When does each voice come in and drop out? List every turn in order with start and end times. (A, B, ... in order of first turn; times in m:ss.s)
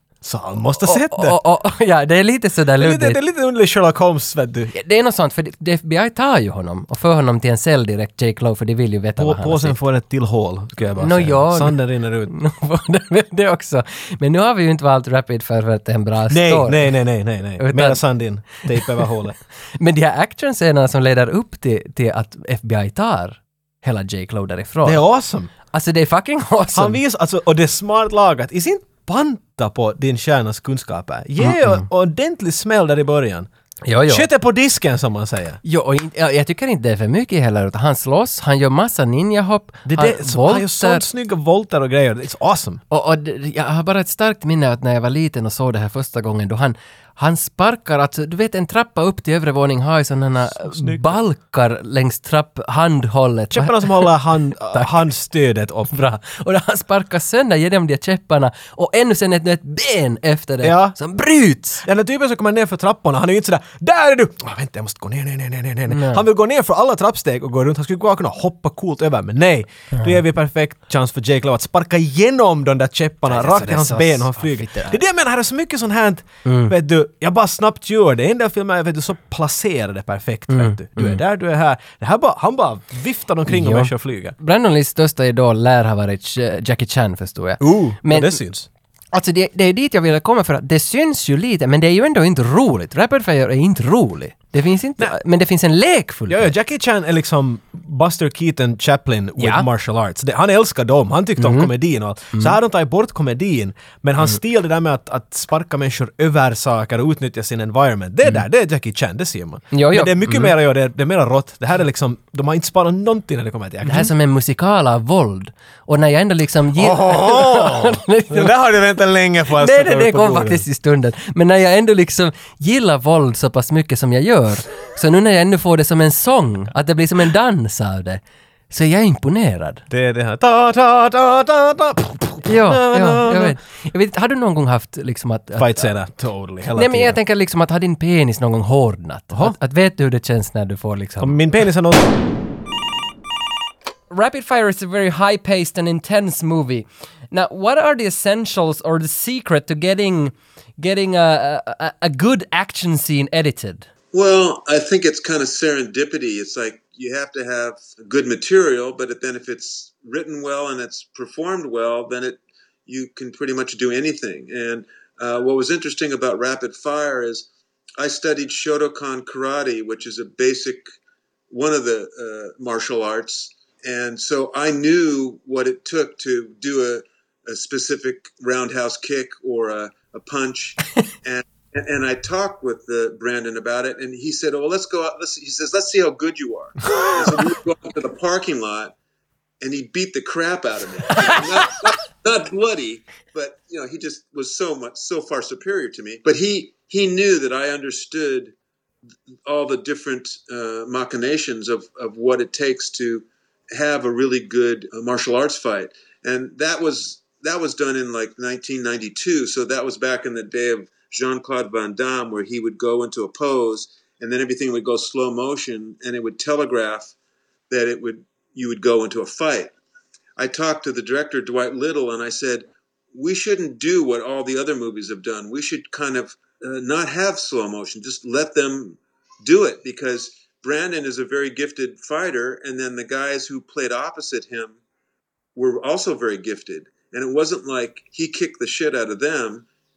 0:00.2-0:01.4 A
0:00.8-0:03.2 B
0:02.8-0:04.7 A
0:04.7-0:09.8 B
0:09.2-0:12.3 A
0:11.0-0:16.9 B
0:16.3-0:19.4 A
0:17.6-0:18.0 B
0:18.7-0:19.0 B
0:19.8-0:25.0 B
0:24.8-0:25.5 A
0:25.7-0:27.0 B
0:26.7-0:33.5 A
0:31.4-0:31.8 B
0:33.8-0:34.3 B
0:34.1-0:35.6 A
0:35.6-0:41.0 B
0:39.9-0:42.8 A
0:42.9-0:54.1 B
0:50.6-0:51.2 A
0:53.5-0:55.9 A
0:55.9-1:01.8 B
1:00.6-1:01.0 A
1:01.8-1:24.4 A
1:05.9-1:06.2 B
1:13.3-1:15.0 B
1:16.4-1:16.8 B
1:20.5-1:21.2 B
1:23.5-1:28.4 B
1:27.6-1:28.7 A
1:29.1-1:36.5 B
1:36.3-1:54.1 A
1:39.4-1:39.7 B
1:41.4-1:41.7 B
1:49.7-1:50.5 B
1:53.8-1:58.5 B
1:56.8-2:00.6 A
1:59.5-2:09.8 B
2:09.9-2:13.6 A
2:12.4-2:15.9 B
2:15.6-2:17.2 A
2:16.7-2:21.4 B
2:21.2-2:22.1 A
2:24.1-2:33.9 B
2:34.1-2:50.8 C
2:51.5-3:08.9 C
3:09.6-3:18.5 C
3:19.5-3:37.1 C
3:37.7-3:39.7 C
3:40.4-3:54.8 C
3:55.6-3:59.7 C